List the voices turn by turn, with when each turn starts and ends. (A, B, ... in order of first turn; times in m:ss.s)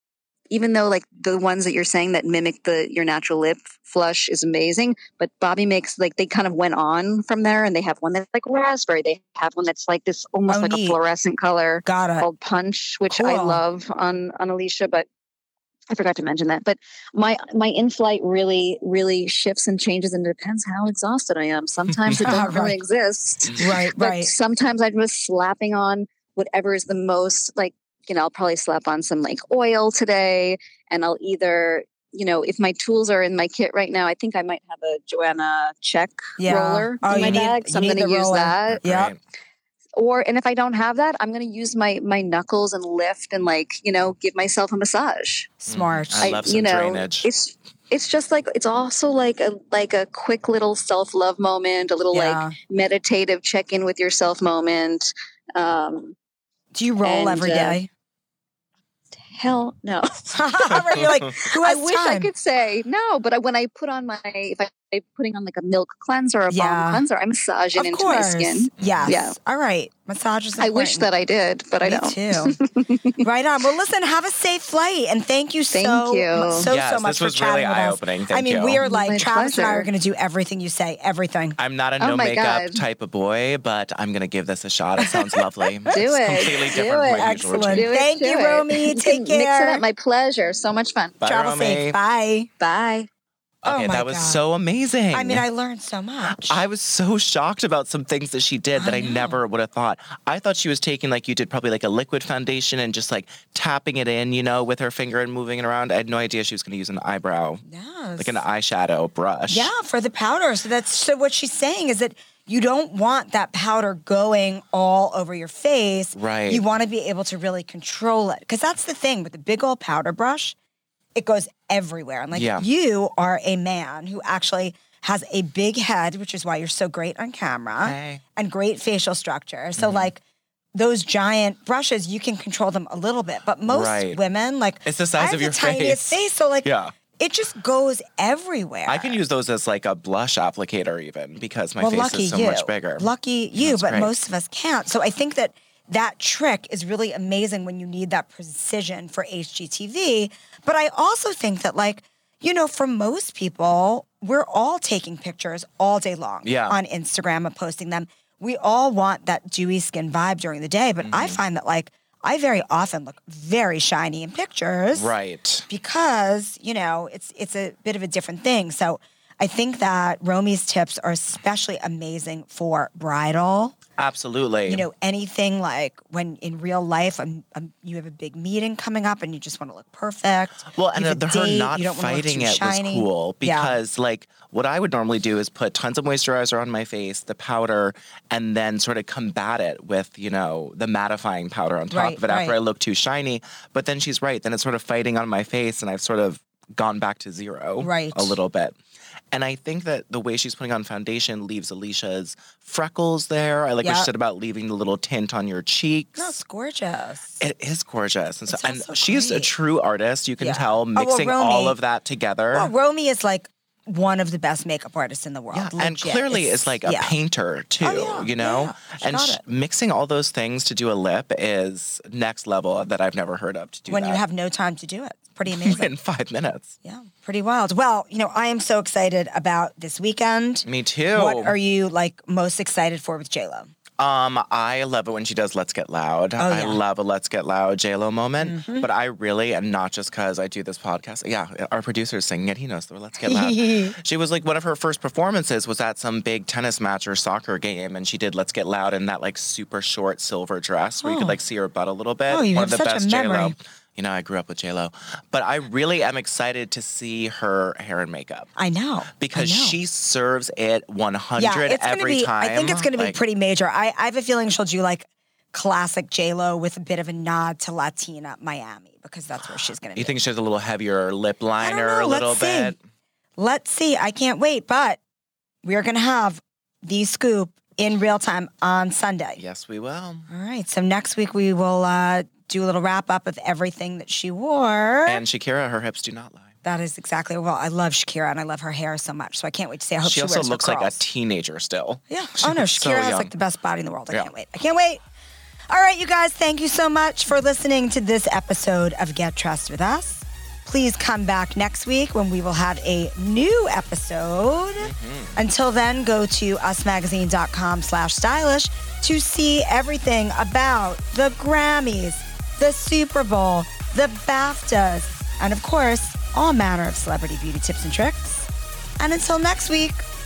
0:00.5-0:15.1 A
0:10.5-0:11.0 B
0:11.8-0:12.3 B
0:13.1-0:13.6 B
0:15.9-0:38.8 A
0:22.2-0:22.8 B
0:23.6-0:24.3 B
0:36.4-0:39.1 B
0:37.1-0:37.4 C
0:38.7-0:39.2 C
0:40.0-0:45.5 A
0:45.6-0:46.4 B
0:45.7-0:47.3 C
0:46.2-0:56.2 A
0:52.1-0:52.6 B
0:56.7-0:57.9 B
0:57.0-0:57.8 A
0:59.2-1:09.4 A
1:00.3-1:02.3 B
1:06.5-1:07.0 B
1:07.8-1:11.1 B
1:08.8-1:09.2 C
1:10.6-1:13.2 A
1:11.8-1:12.6 B
1:13.2-1:21.6 B
1:15.7-1:16.7 A
1:16.5-1:18.8 C
1:18.8-1:19.9 A
1:21.6-1:27.9 C
1:22.0-1:22.8 A
1:25.0-1:29.8 B
1:25.9-1:31.2 A
1:31.2-1:32.0 C
1:31.2-1:32.5 B
1:32.6-1:33.1 A
1:33.6-1:35.4 C
1:33.6-1:34.4 B
1:35.1-1:36.6 B
1:36.3-1:47.6 C
1:38.8-1:39.4 B
1:47.7-1:48.4 B
1:48.2-1:49.7 C
1:49.5-2:00.6 B
1:56.2-1:56.6 C
2:01.2-2:10.2 B
2:02.3-2:02.6 C
2:07.8-2:08.2 C
2:09.8-2:10.1 C
2:10.7-2:19.2 B
2:13.7-2:14.2 C
2:14.8-2:17.0 C
2:18.9-2:24.1 C
2:21.8-2:45.1 B
2:36.4-2:36.8 C
2:41.0-2:41.4 C
2:44.9-2:45.7 C
2:45.7-2:53.8 B
2:54.0-2:54.9 C
2:54.7-3:03.8 B
3:00.7-3:18.8 C
3:11.9-3:12.6 B
3:17.8-3:18.4 B
3:19.3-3:26.4 C
3:23.8-3:24.1 B
3:26.2-3:27.4 B
3:27.4-3:32.7 C
3:28.5-3:29.5 B
3:30.4-3:31.8 B
3:32.5-3:37.2 B
3:35.5-3:44.2 C
3:37.8-3:39.4 B
3:43.9-3:45.9 B
3:45.5-3:46.7 C
3:46.8-3:53.7 B
3:50.6-3:51.6 C
3:54.0-4:18.5 C
3:56.4-3:56.8 B
3:58.4-3:58.9 B
4:03.2-4:04.0 B
4:11.0-4:11.4 B
4:12.3-4:13.6 B
4:18.6-4:19.8 B
4:19.2-4:23.2 C
4:21.4-4:30.2 B
4:30.0-4:32.8 C
4:31.6-4:32.8 B
4:33.4-4:35.0 B
4:35.6-4:39.4 B
4:39.4-4:40.3 C
4:40.3-4:45.2 B
4:45.1-4:46.6 C
4:46.6-4:51.0 B
4:50.0-4:53.3 C
4:52.1-4:55.0 B
4:55.7-5:20.0 B
5:04.8-5:05.4 C